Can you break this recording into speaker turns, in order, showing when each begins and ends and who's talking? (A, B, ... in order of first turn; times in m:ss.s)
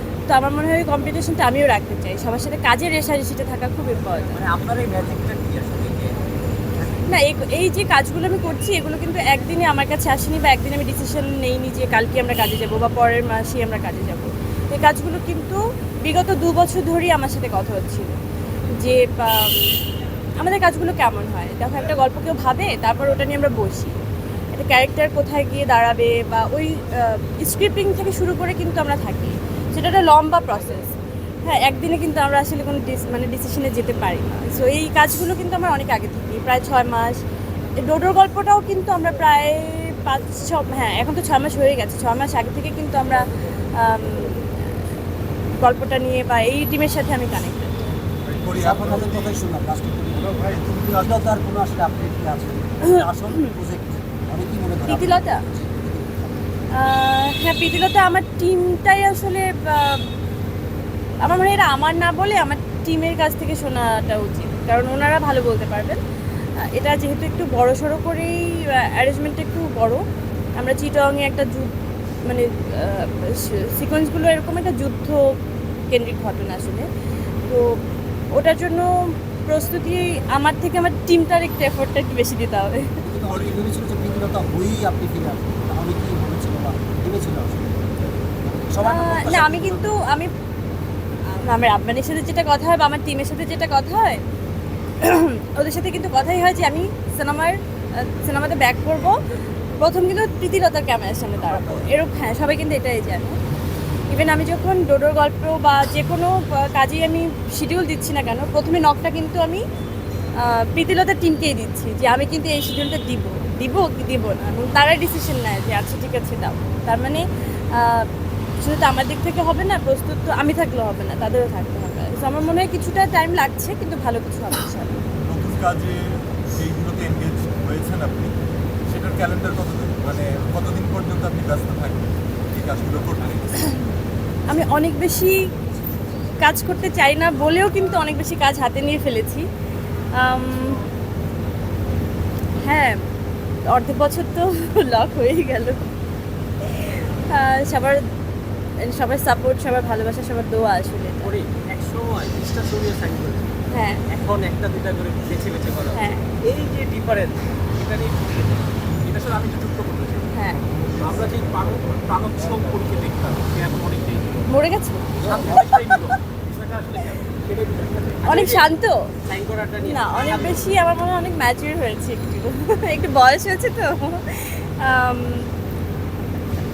0:00.3-0:04.4 A
0:04.3-0:06.2 B
0:07.1-0:18.1 A
0:18.8-0:19.8 A
0:20.4-0:24.0 A
0:24.5-0:37.2 A
0:37.8-0:44.6 A
0:45.6-0:47.8 A
0:48.2-0:49.4 C
0:48.5-0:56.5 B
0:50.4-0:51.0 C
0:52.8-0:53.5 A
0:54.9-0:55.4 A
0:56.7-1:00.0 A
1:01.2-1:06.0 A
1:06.6-1:10.0 A
1:10.6-1:15.4 A
1:15.9-1:16.9 A
1:17.4-1:17.8 A
1:18.3-1:23.0 A
1:23.0-1:27.7 B
1:23.3-1:23.7 C
1:28.4-1:30.0 B
1:28.8-1:30.3 A
1:31.4-1:34.2 A
1:35.0-1:39.2 A
1:39.8-1:43.4 A
1:44.1-1:49.6 A
1:50.4-1:58.1 A
1:58.6-2:04.9 A
2:05.2-2:08.3 C
2:08.9-2:13.7 C
2:14.5-2:15.4 A
2:16.4-2:19.5 A
2:20.1-2:20.8 A
2:22.6-2:23.0 A
2:23.6-2:25.8 A
2:26.6-2:28.0 A
2:28.8-2:31.3 A
2:31.2-2:33.6 D
2:33.7-2:34.0 A
2:34.1-2:40.3 D
2:35.9-2:36.3 A
2:40.3-2:40.6 A
2:41.0-2:44.5 D
2:44.5-2:45.6 A
2:45.2-2:48.7 D
2:48.2-2:49.1 A
2:49.2-2:50.7 D
2:49.8-2:55.5 A